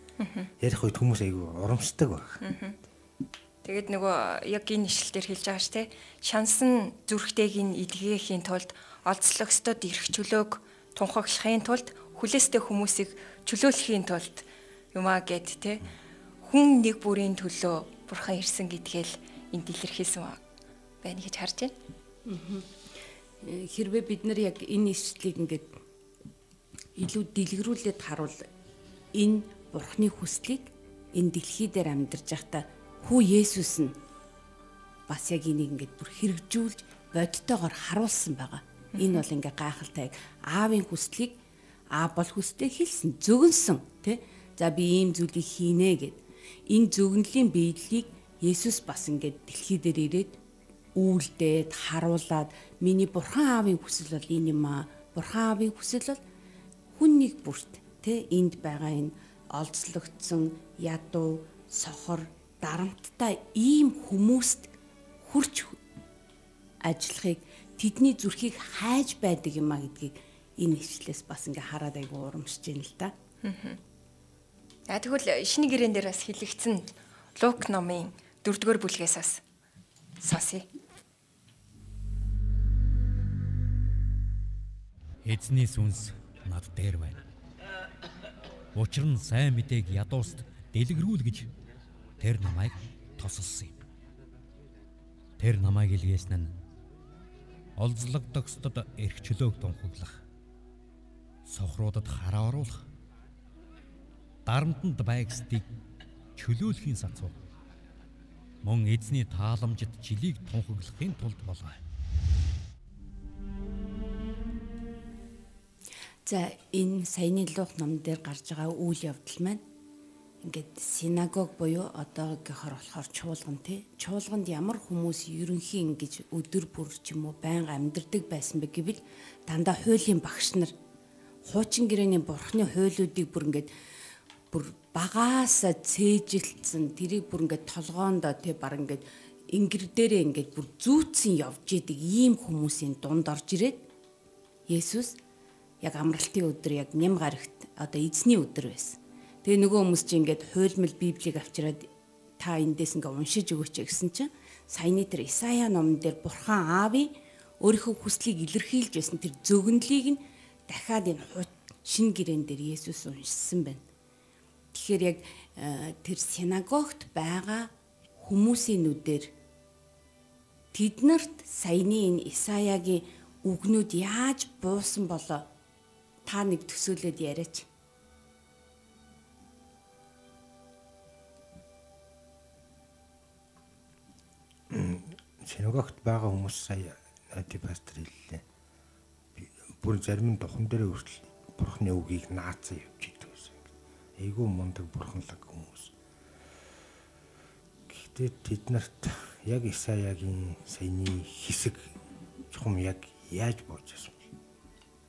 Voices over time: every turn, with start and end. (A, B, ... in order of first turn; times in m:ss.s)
0:00.2-0:00.5 A
0:00.6-0:02.4 B
0:02.4-0:02.8 A
0:03.6-0:15.8 A
0:16.4-0:20.4 A
0:21.0-0:21.7 A
0:22.3-0:22.7 C
0:23.4-0:25.7 C
0:27.0-0:28.4 C
0:29.2-0:34.0 C
0:35.1-0:41.4 C
0:39.0-0:39.2 A
0:41.9-0:50.4 C
0:51.0-0:56.2 C
0:57.0-1:04.7 C
1:05.2-1:05.8 C
1:06.8-1:13.1 C
1:13.4-1:13.8 A
1:14.9-1:19.4 A
1:20.2-1:20.7 A
1:25.2-1:27.2 D
1:28.7-1:31.5 D
1:32.2-1:33.8 D
1:35.4-1:36.5 D
1:37.8-1:40.2 D
1:41.5-1:42.8 D
1:44.5-1:45.7 D
1:46.4-1:47.4 D
1:48.6-1:51.8 D
1:56.3-1:59.6 C
2:00.4-2:10.7 C
2:11.4-2:13.7 C
2:14.5-2:23.8 C
2:24.7-2:25.2 C
2:25.8-2:43.8 C
2:44.7-2:47.7 C
2:48.2-2:49.3 C
2:50.7-2:55.4 C
2:56.3-2:57.7 C
3:04.7-3:08.4 B
3:09.4-3:13.6 B
3:14.2-3:15.9 B
3:17.9-3:22.0 B
3:22.5-3:24.3 B